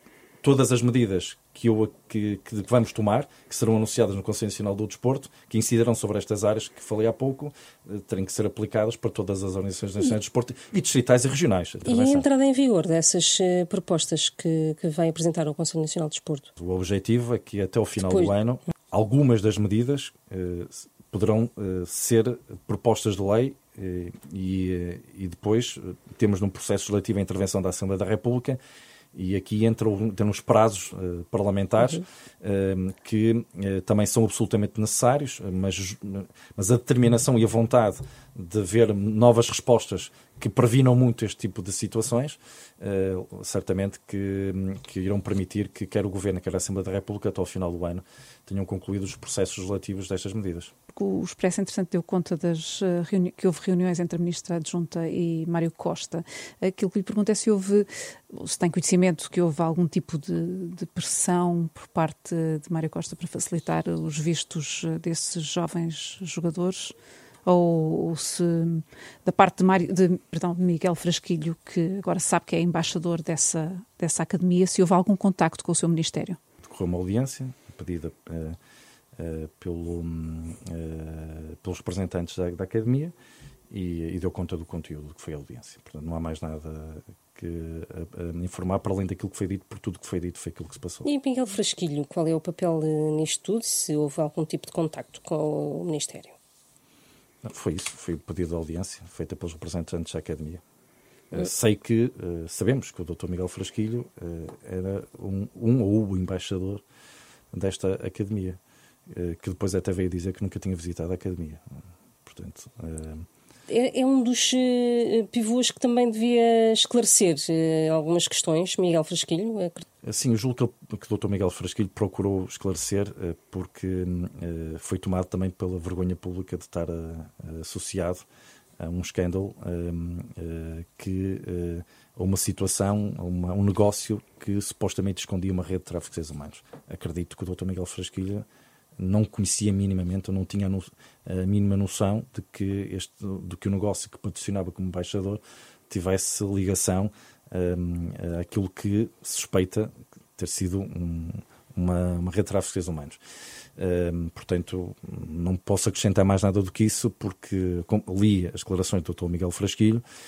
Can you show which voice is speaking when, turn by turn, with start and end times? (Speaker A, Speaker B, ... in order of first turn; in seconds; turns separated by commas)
Speaker A: 0.4-12.2, Speaker B: 11.9-16.5, Speaker A: 16.6-28.6, Speaker B: 18.0-18.3, Speaker A: 29.1-50.7, Speaker C: 51.0-76.4, Speaker A: 76.6-78.6, Speaker A: 79.2-83.1, Speaker A: 83.7-91.1, Speaker B: 91.0-96.4, Speaker A: 97.4-100.6, Speaker A: 101.3-106.8, Speaker A: 107.5-111.6, Speaker A: 112.2-113.2, Speaker B: 113.7-119.9, Speaker A: 120.0-128.2, Speaker A: 128.8-138.5, Speaker A: 139.0-153.2, Speaker A: 153.8-160.0